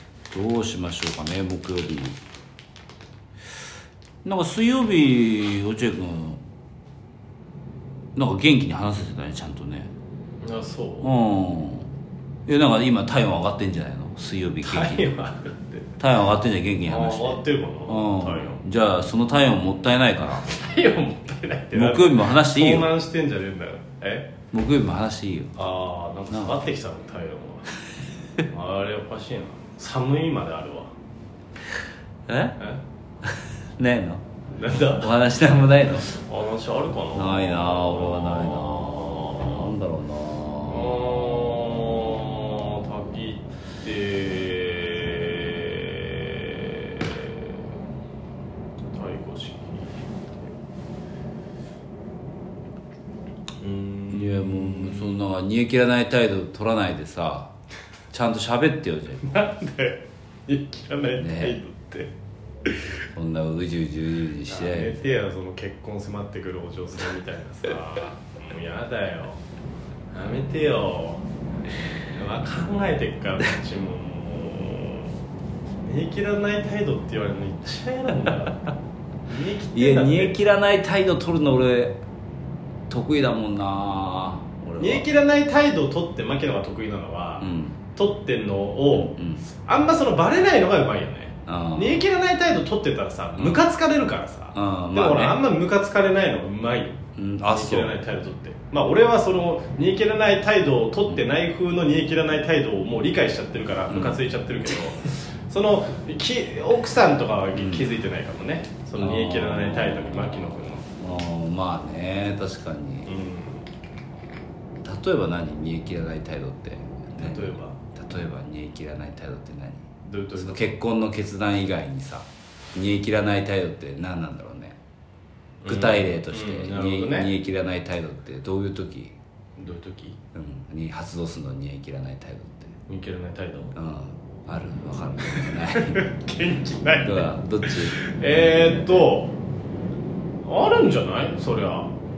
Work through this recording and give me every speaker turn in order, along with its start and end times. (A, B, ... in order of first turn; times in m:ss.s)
0:00.3-0:02.2 A
0:04.2-0:06.4 A
0:08.2-0:09.9 A
0:10.4-0:11.1 B
0:11.0-0:11.9 A
0:12.5-0:15.1 A
0:14.6-0:15.9 B
0:16.0-0:20.5 A
0:16.8-0:18.6 B
0:20.4-0:24.3 B
0:21.7-0:22.9 A
0:24.5-0:25.5 A
0:25.6-0:27.7 B
0:26.3-0:26.6 A
0:28.5-0:30.9 B
0:32.3-0:32.6 A
0:33.2-0:34.2 A
0:34.5-0:35.3 B
0:35.0-0:36.1 A
0:36.1-0:39.7 B
0:37.2-0:41.2 A
0:40.7-0:47.5 B
0:48.9-0:50.0 B
0:53.6-0:55.1 B
0:54.1-0:57.5 A
0:58.1-0:59.3 A
0:59.2-1:02.1 B
1:01.2-1:01.6 A
1:03.1-1:05.0 A
1:04.4-1:09.4 B
1:10.1-1:11.2 B
1:12.1-1:15.1 B
1:15.8-1:18.6 B
1:19.3-1:20.4 B
1:19.7-1:22.0 A
1:22.9-1:25.1 A
1:24.8-1:29.1 B
1:27.4-1:27.8 A
1:28.9-1:29.4 A
1:29.7-1:37.0 B
1:31.5-1:32.0 A
1:33.4-1:33.6 A
1:34.6-1:35.4 A
1:37.2-1:38.0 A
1:37.5-1:50.8 B
1:43.9-1:44.2 A
1:47.6-1:47.9 A
1:49.0-1:53.1 A
1:53.1-1:53.6 B
1:54.8-1:59.9 A
1:57.2-1:57.8 B
2:00.0-2:00.8 B
2:00.4-2:04.8 A
2:05.6-2:07.3 B
2:05.7-2:09.1 A
2:09.6-2:10.2 B
2:10.3-2:12.7 A
2:12.9-2:13.8 B
2:13.8-2:16.0 A
2:15.3-2:19.3 B
2:17.0-2:18.0 A
2:20.4-2:21.9 B